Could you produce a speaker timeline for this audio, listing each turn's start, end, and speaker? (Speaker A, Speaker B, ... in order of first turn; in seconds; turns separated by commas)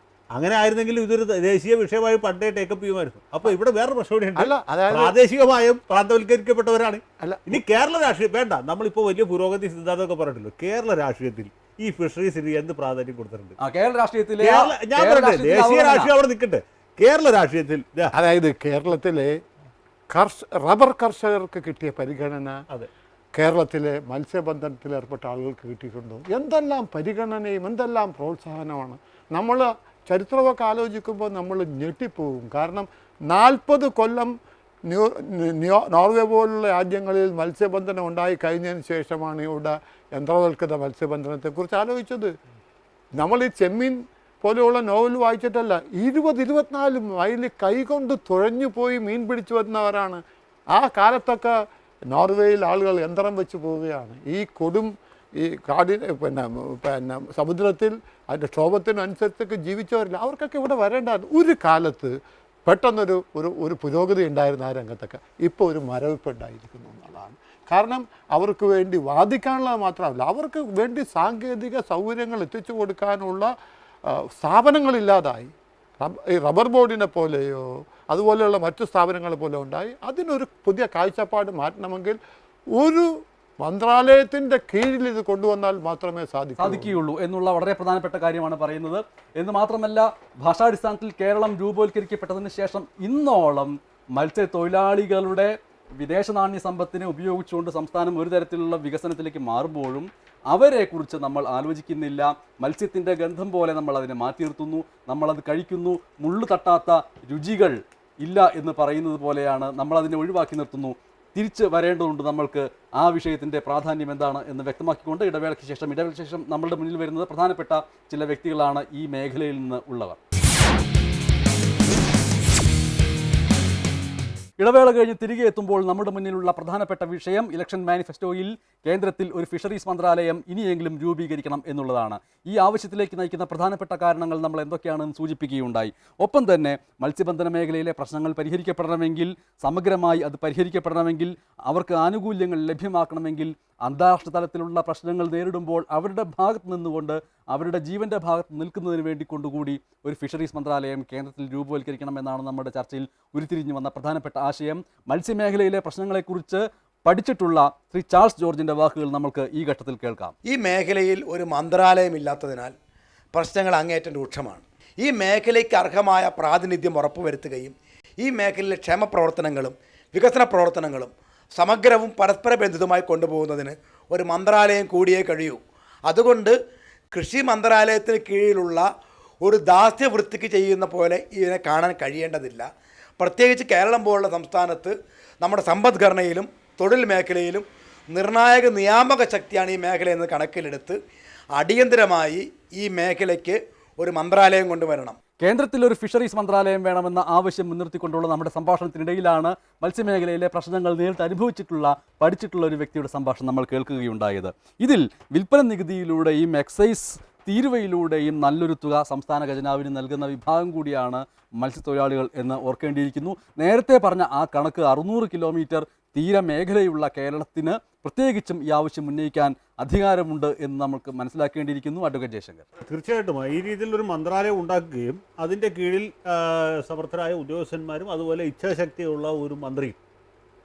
Speaker A: 0.3-13.6, Speaker B: 4.4-5.2, Speaker B: 7.2-7.6, Speaker C: 13.6-16.1, Speaker A: 14.4-18.1, Speaker B: 18.1-19.3, Speaker B: 20.1-22.6, Speaker B: 23.4-34.3, Speaker B: 34.9-42.3, Speaker B: 43.2-50.2, Speaker B: 50.7-51.6, Speaker B: 52.1-62.1, Speaker B: 62.7-73.5, Speaker B: 74.1-82.2, Speaker B: 82.8-83.1, Speaker B: 83.6-87.0, Speaker C: 86.6-120.2, Speaker C: 124.6-160.3, Speaker D: 160.5-162.7, Speaker D: 163.3-176.6, Speaker D: 177.1-178.9, Speaker D: 179.4-191.0, Speaker D: 191.6-195.2, Speaker C: 195.4-222.7, Speaker A: 222.8-230.0